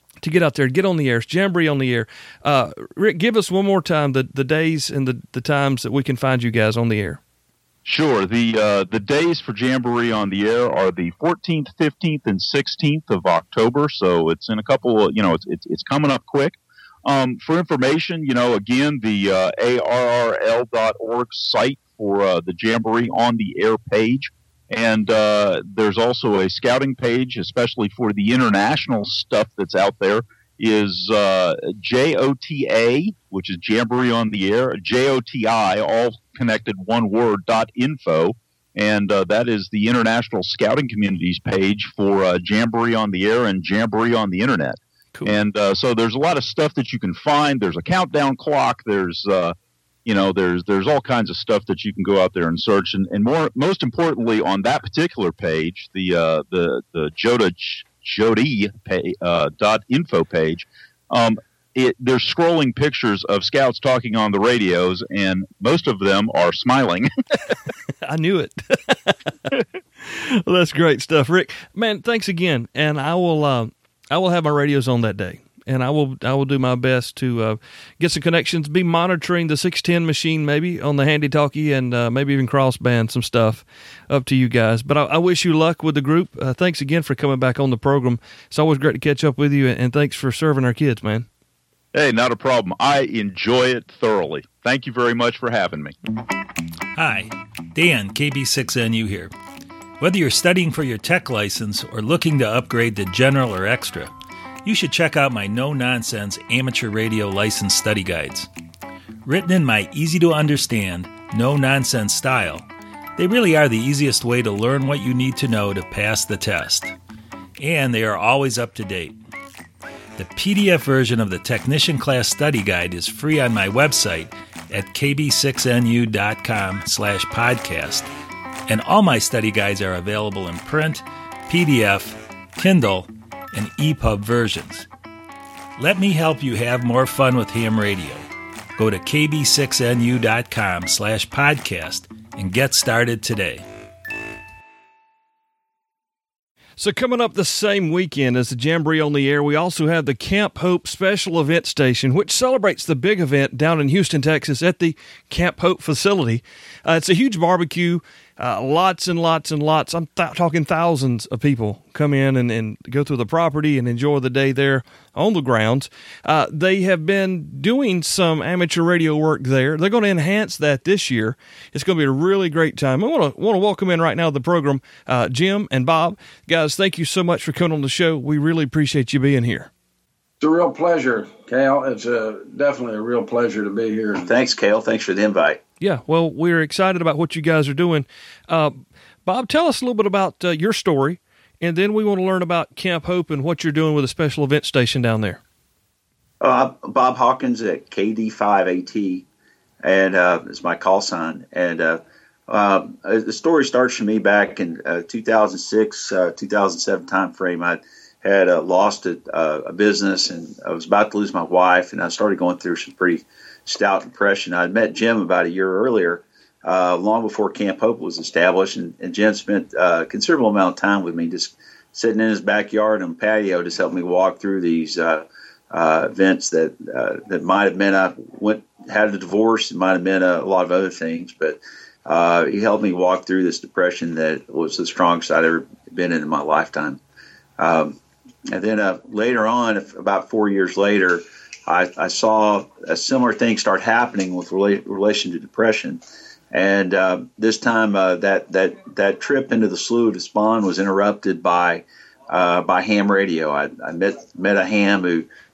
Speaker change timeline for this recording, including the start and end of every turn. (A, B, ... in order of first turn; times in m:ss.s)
0:00.2-0:07.2 A
0:07.8-1:07.1 B
1:08.0-1:09.2 A
1:10.0-1:31.2 A
1:31.9-1:35.9 B
1:36.9-1:39.3 C
1:40.0-1:48.5 C
1:49.2-1:52.6 C
1:53.2-1:56.9 C
1:57.6-1:59.2 C
2:00.2-2:08.1 C
2:08.7-2:14.9 C
2:15.8-2:18.2 C
2:18.8-2:23.6 C
2:26.8-2:59.7 A
3:00.4-3:04.3 D
3:04.3-3:05.6 E
3:05.8-3:15.4 A
3:16.4-3:19.2 E
3:19.8-3:57.0 E
3:57.6-3:58.0 E
3:58.5-4:06.0 E
4:06.5-4:15.3 E